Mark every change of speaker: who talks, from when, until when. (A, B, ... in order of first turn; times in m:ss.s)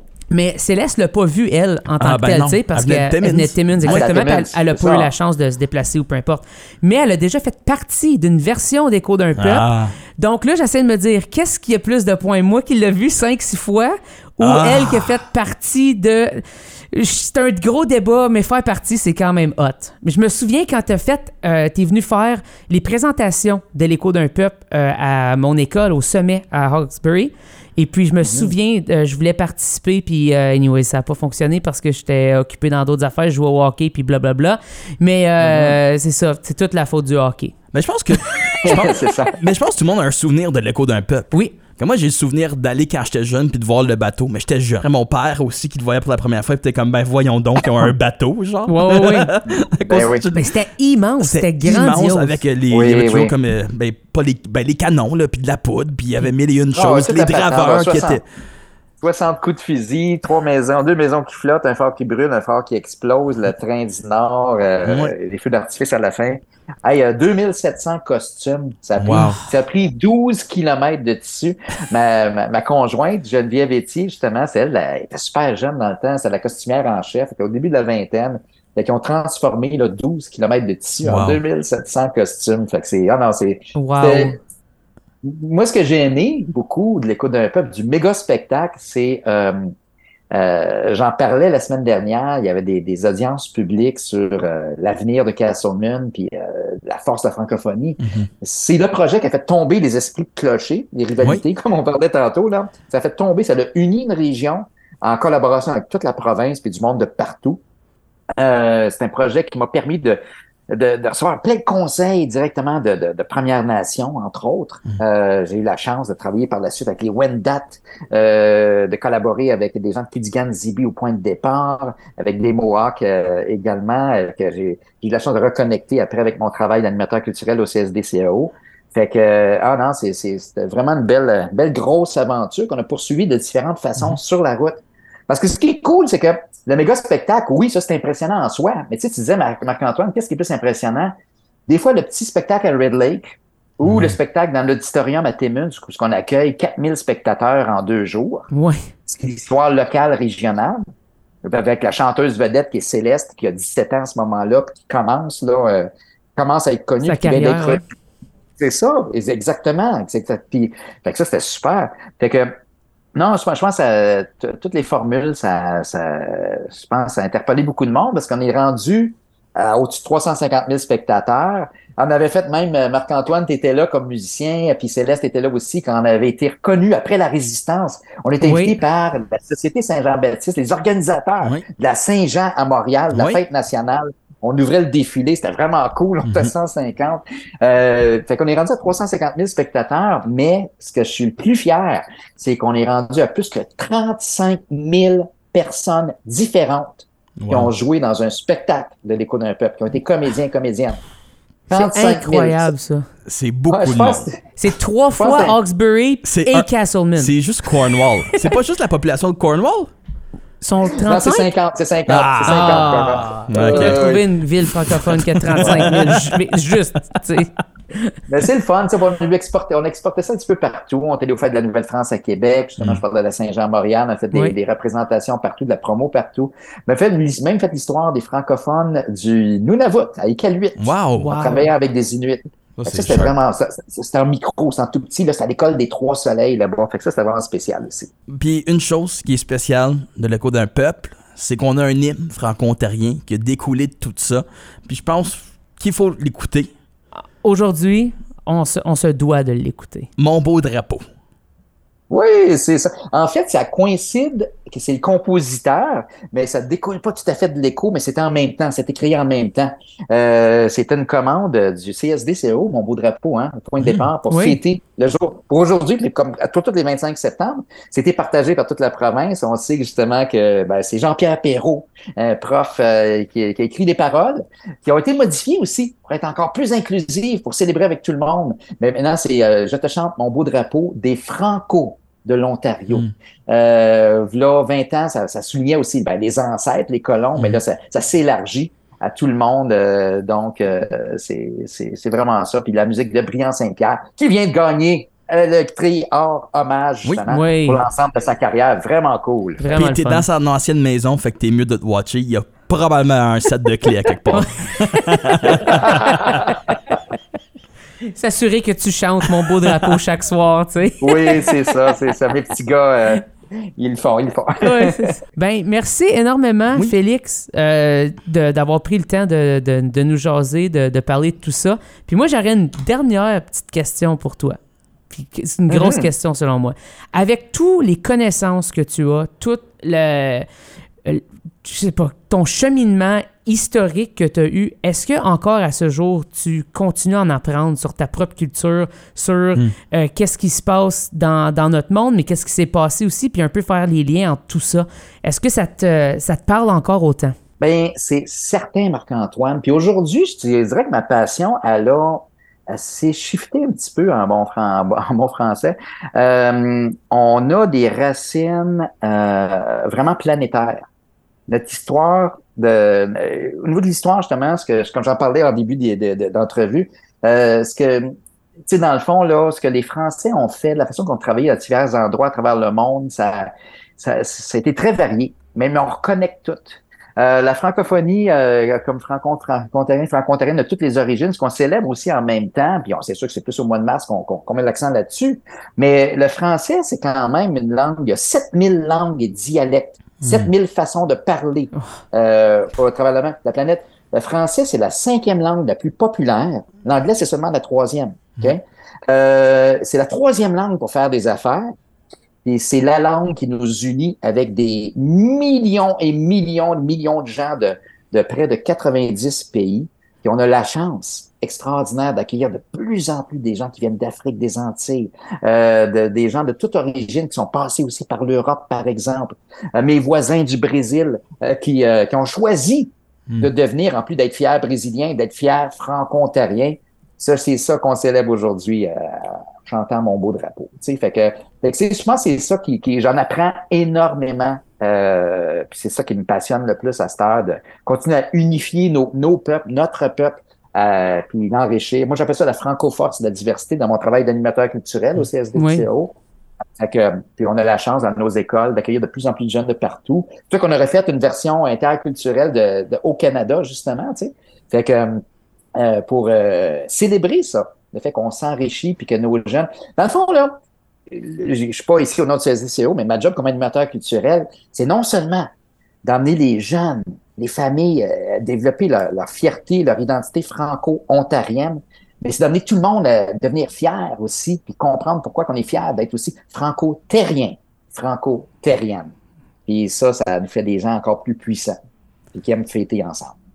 0:00.3-0:37.6 A
0:02.0-0:04.1 B
0:03.8-0:05.1 C
0:09.4-0:09.9 B
0:14.4-0:15.2 B
0:28.2-0:28.5 C
0:35.4-0:35.7 C
0:37.7-0:50.5 B
0:38.6-0:39.4 C
0:48.7-0:49.3 A
0:49.9-0:50.2 C
0:50.3-0:52.4 A
0:51.2-0:58.2 B
0:52.7-0:53.3 C
0:56.7-0:58.2 C
0:59.0-1:24.4 C
1:04.8-1:05.1 B
1:09.0-1:09.4 B
1:21.0-1:21.4 B
1:23.8-1:24.4 A
1:25.2-1:29.7 C
1:30.3-1:47.6 C
1:38.0-1:38.3 B
1:48.4-2:21.1 C
2:21.7-2:28.5 C
2:23.8-2:24.2 B
2:28.5-2:28.8 A
2:29.1-2:30.8 C
2:31.4-2:37.8 C
2:37.0-2:37.8 A
2:38.6-2:42.6 C
2:43.1-3:21.0 C
2:58.4-2:58.8 A
3:03.1-3:03.4 B
3:06.2-3:06.5 B
3:17.4-3:17.7 B
3:21.7-3:22.7 C
3:21.7-3:23.1 A
3:23.2-3:24.3 B
3:23.7-3:24.4 C
3:24.6-3:27.3 A
3:25.2-3:25.6 C
3:26.2-3:29.9 B
3:30.6-3:31.5 A
3:31.0-3:34.2 C
3:32.1-3:34.0 B
3:32.4-3:38.1 A
3:34.9-3:36.8 B
3:35.6-3:36.0 C
3:38.3-3:58.1 C
3:50.8-3:51.3 B
3:51.2-3:51.7 A
3:52.8-3:53.3 B
3:58.3-4:06.7 B
4:07.4-4:10.1 A
4:10.2-4:11.0 B
4:12.1-4:59.7 C
4:23.8-4:24.1 B
4:24.3-4:24.6 A
4:57.3-4:57.8 A
4:59.6-5:00.2 A
4:59.7-5:06.1 B
5:04.3-5:06.8 A
5:05.6-5:06.5 C
5:08.1-5:11.7 A
5:11.0-5:13.2 C
5:13.8-5:15.1 C
5:14.6-5:24.6 A
5:25.1-5:30.5 A
5:25.7-5:26.1 C
5:31.0-5:47.4 A
5:47.6-6:00.9 C
6:01.5-6:08.1 C
6:08.6-6:41.7 C
6:30.2-6:30.5 B
6:42.4-7:26.1 C
7:25.6-7:25.8 A
7:26.8-7:35.2 C
7:35.7-7:40.5 C
7:41.1-7:45.5 C
7:46.0-7:59.1 C
7:59.6-8:01.8 C
8:02.3-8:03.3 C